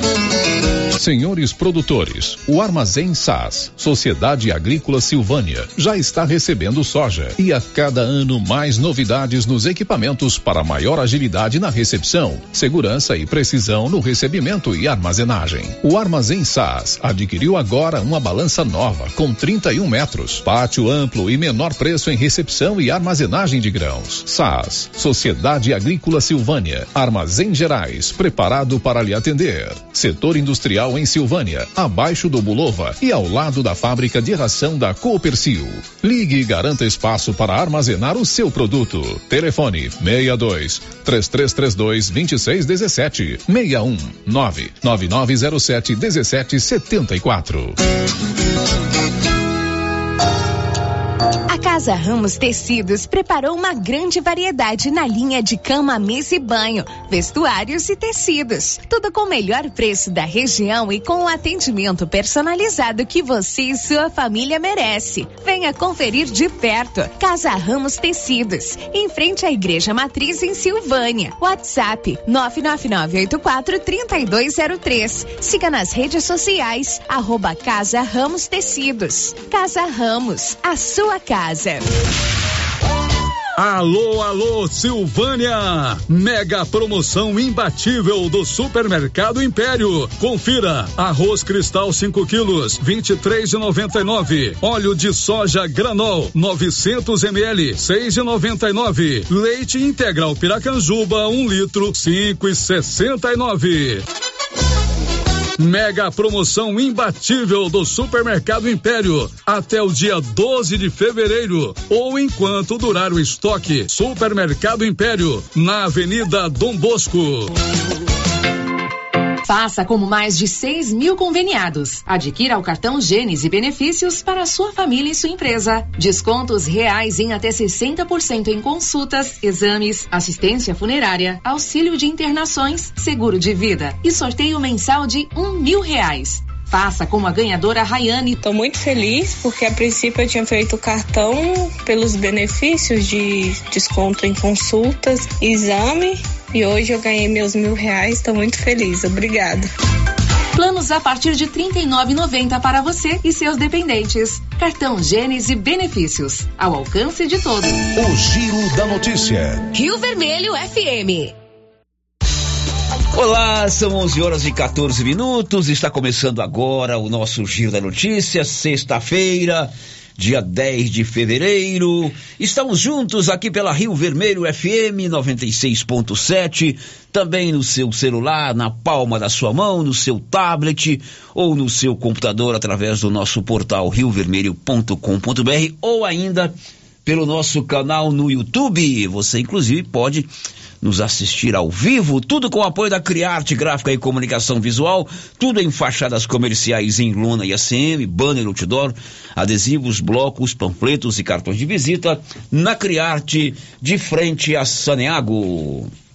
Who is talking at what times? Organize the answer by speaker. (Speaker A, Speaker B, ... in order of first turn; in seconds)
Speaker A: 0.9-47.8
Speaker B: 51.5-81.9, 159.7-161.3
Speaker C: 83.5-104.0, 105.6-117.5
Speaker D: 119.4-138.4, 150.5-157.9
Speaker E: 138.4-149.7
Speaker F: 163.1-186.5, 187.0-190.3, 190.8-205.9